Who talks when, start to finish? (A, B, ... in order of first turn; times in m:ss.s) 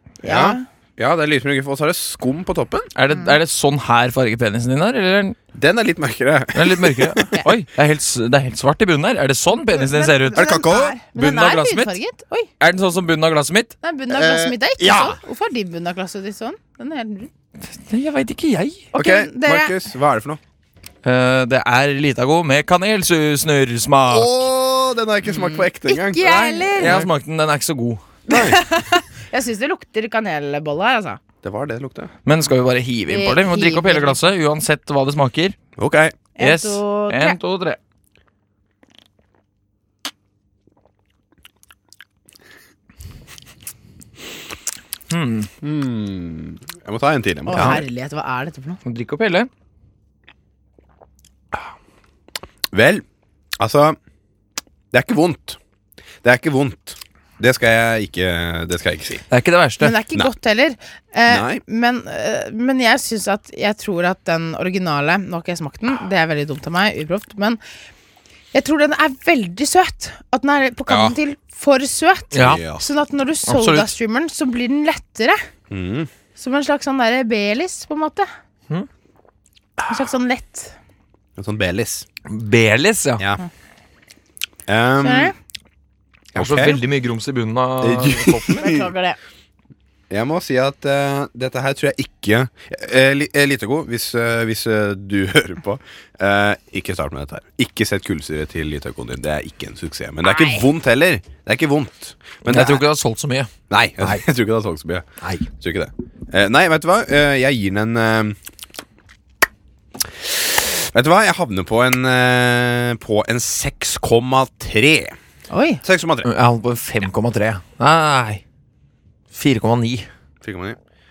0:00.2-0:00.6 A
0:00.3-0:02.9 B
0:03.0-0:05.4 C
0:03.1-0:03.4 A
0:05.5-0:07.3 B
0:06.6-0:10.6 C
0:09.5-0:12.5 A
0:10.4-0:11.0 B
0:11.2-0:12.0 C
0:12.6-0:13.7 C
0:13.8-0:17.3 A
0:14.1-0:15.2 B
0:17.7-0:18.9 C
0:18.9-0:19.8 A
0:19.0-0:20.4 B
0:21.0-0:24.4 C
0:24.1-0:26.2 B
0:25.3-0:27.1 A
0:26.2-0:28.0 C
0:26.8-0:27.0 B
0:28.3-0:28.6 B
0:28.3-0:31.2 A
0:31.4-0:32.1 B
0:32.2-0:35.6 C
0:33.1-0:34.2 A
0:35.8-0:36.2 B
0:36.4-0:37.4 A
0:36.4-0:37.8 C
0:45.1-0:45.5 C
0:45.6-0:47.8 B
0:47.5-0:48.8 A
0:47.6-0:47.8 C
0:48.8-0:49.5 C
0:52.7-0:53.0 B
0:53.6-0:54.0 B
0:54.9-0:55.6 B
0:56.2-0:59.2 B
0:59.3-1:00.0 C
0:59.8-1:07.6 A
1:01.3-1:01.6 B
1:08.5-1:15.4 A
1:10.9-1:11.2 B
1:12.3-1:12.6 C
1:12.4-1:12.8 B
1:13.5-1:13.9 C
1:15.7-1:16.1 B
1:16.4-1:18.3 A
1:19.9-1:20.8 A
1:21.4-1:22.0 B
1:22.3-1:23.2 C
1:24.7-1:25.3 B
1:25.0-1:25.3 A
1:26.3-1:26.8 B
1:26.4-1:28.6 C
1:27.8-1:28.9 B
1:28.5-1:29.2 A
1:30.1-1:42.8 B
1:40.2-1:40.7 A
1:42.5-1:43.5 C
1:43.7-1:48.4 B
1:50.2-1:55.2 B
1:55.5-1:55.8 A
1:55.8-1:56.3 B
1:56.2-1:58.4 C
1:59.3-2:00.1 C
2:00.4-2:00.8 B